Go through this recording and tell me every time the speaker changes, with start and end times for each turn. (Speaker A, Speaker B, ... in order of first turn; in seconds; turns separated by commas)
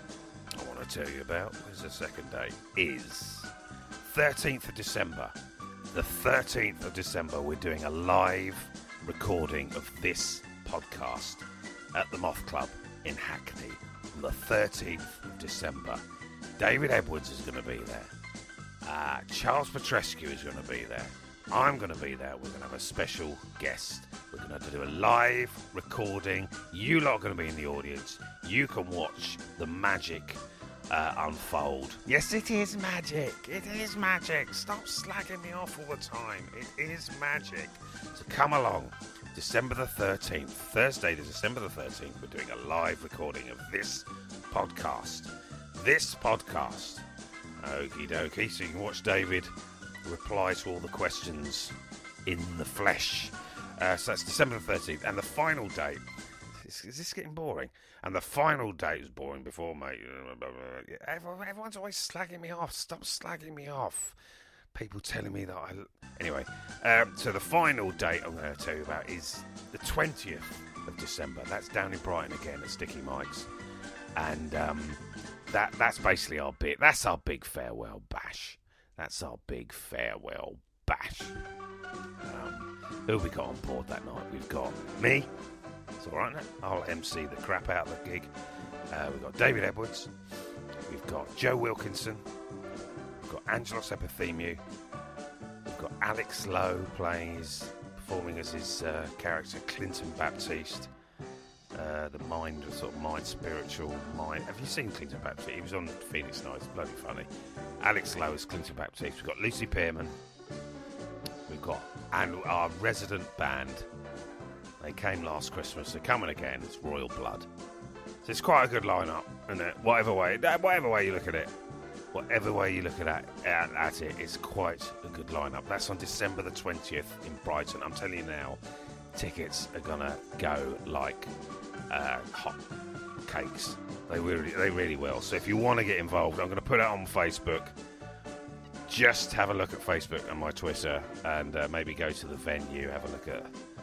Speaker A: 0.6-3.5, Speaker A: 4.0-5.3, Speaker A: 5.9-11.4, Speaker A: 11.9-16.0, Speaker A: 16.6-18.1, Speaker A: 18.8-30.4, Speaker A: 30.9-47.0, Speaker A: 47.6-49.5, Speaker A: 50.0-51.7, Speaker A: 52.3-56.0, Speaker A: 56.6-64.2, Speaker A: 64.7-73.5, Speaker A: 74.2-81.3, Speaker A: 82.2-85.3, Speaker A: 86.0-88.3, Speaker A: 88.9-90.1, Speaker A: 90.9-92.2, Speaker A: 93.2-94.6, Speaker A: 95.7-100.9, Speaker A: 101.7-107.3, Speaker A: 107.8-110.1, Speaker A: 111.5-113.9, Speaker A: 114.8-117.5, Speaker A: 118.2-121.5, Speaker A: 122.1-128.6, Speaker A: 129.2-131.3, Speaker A: 131.9-132.6, Speaker A: 133.3-137.7, Speaker A: 138.9-143.5